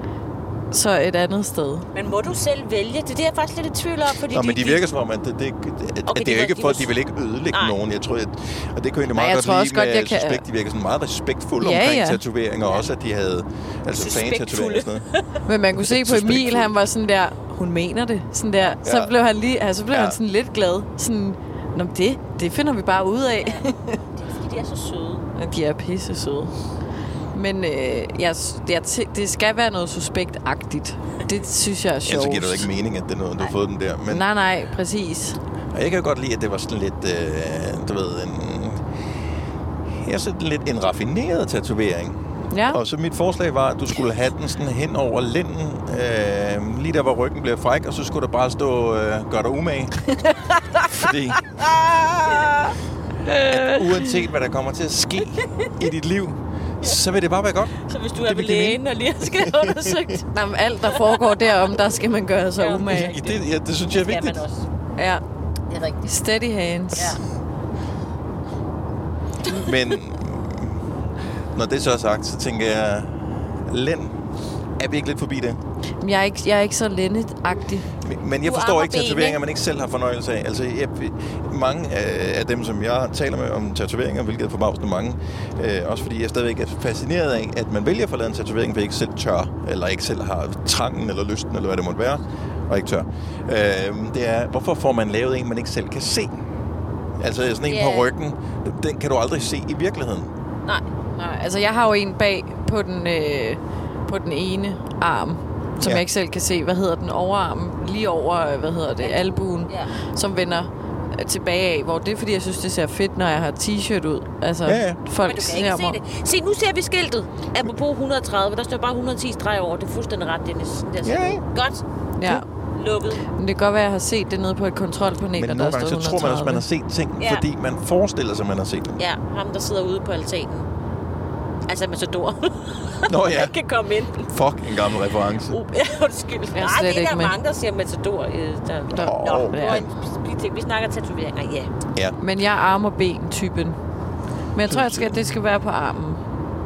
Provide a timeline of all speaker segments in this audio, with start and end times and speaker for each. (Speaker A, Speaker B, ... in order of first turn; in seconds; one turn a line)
Speaker A: 0.7-1.9
Speaker B: 1.9-4.8
Speaker C: 4.2-15.1
Speaker B: 6.1-6.9
Speaker A: 9.1-10.4
Speaker A: 11.6-12.2
Speaker B: 13.9-15.2
Speaker A: 15.4-23.9
Speaker C: 15.8-16.7
Speaker C: 18.8-19.1
Speaker C: 19.9-20.2
Speaker B: 24.1-25.2
Speaker A: 25.4-26.5
Speaker A: 27.3-32.7
Speaker C: 32.0-34.2
Speaker A: 34.1-35.4
Speaker C: 35.7-38.8
Speaker C: 40.0-50.0
Speaker A: 42.5-42.8
Speaker C: 50.8-51.5
Speaker B: 52.2-52.5
Speaker A: 53.2-54.1
Speaker C: 53.4-58.8
Speaker B: 57.9-60.2
Speaker C: 59.4-59.9
Speaker A: 60.3-63.1
Speaker B: 62.6-64.7
Speaker C: 62.8-64.4
Speaker A: 65.0-65.2
Speaker B: 65.7-66.0
Speaker A: 66.0-67.2
Speaker B: 66.9-67.2
Speaker C: 69.5-70.8
Speaker C: 71.5-74.2
Speaker C: 74.8-75.6
Speaker A: 76.0-77.9
Speaker C: 78.0-96.4
Speaker B: 78.4-79.4
Speaker C: 97.2-100.3
Speaker B: 97.7-98.1
Speaker A: 101.2-116.0
Speaker B: 109.0-109.9
Speaker C: 114.7-115.0
Speaker B: 115.2-121.8
Speaker C: 121.0-121.4
Speaker A: 122.2-122.4
Speaker B: 122.7-123.2
Speaker A: 123.3-126.6
Speaker C: 125.3-129.0
Speaker B: 127.2-127.4
Speaker B: 129.0-130.7
Speaker B: 131.7-134.3
Speaker C: 133.1-133.5
Speaker C: 134.3-135.6
Speaker B: 135.5-141.7
Speaker A: 136.5-137.3
Speaker C: 138.9-139.9
Speaker A: 138.9-139.8
Speaker A: 142.2-143.8
Speaker A: 144.5-146.2
Speaker C: 144.7-145.2